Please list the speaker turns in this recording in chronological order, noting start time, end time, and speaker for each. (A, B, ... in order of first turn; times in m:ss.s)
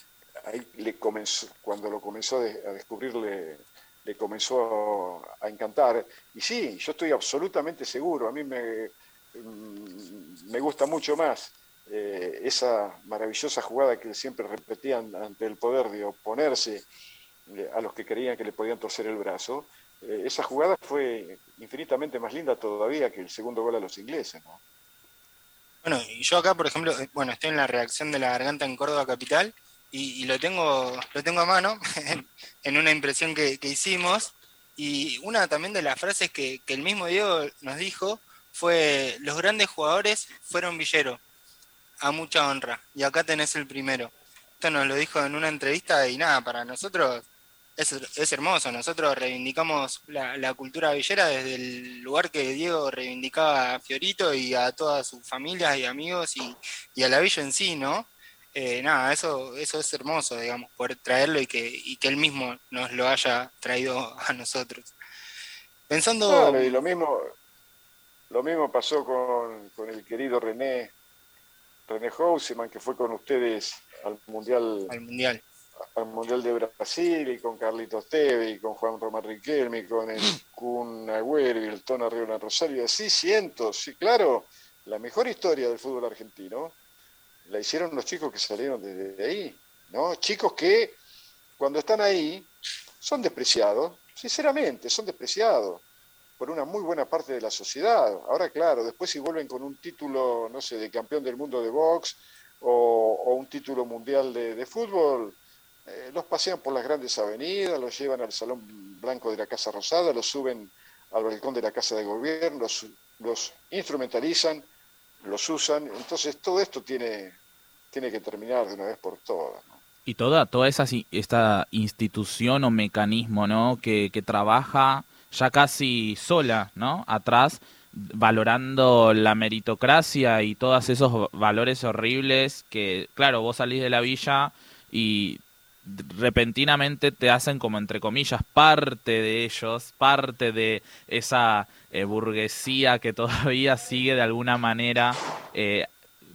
0:00.4-0:16.8 A
0:17.5-0:24.6 A
0:25.8-0:41.2 B
0:42.0-0:47.2 B
0:47.8-1:04.9 B
1:05.9-1:06.8 B
1:06.3-1:07.3 A
1:08.3-1:10.9 A
1:11.9-1:15.0 A
1:14.9-1:15.4 B
1:15.9-1:26.8 A
1:27.5-1:31.0 A
1:31.6-1:32.5 A
1:33.0-1:35.8 A
1:36.4-1:45.4 A
1:45.9-1:54.7 A
1:55.2-1:57.4 A
1:57.9-1:59.8 A
2:00.1-2:25.9 C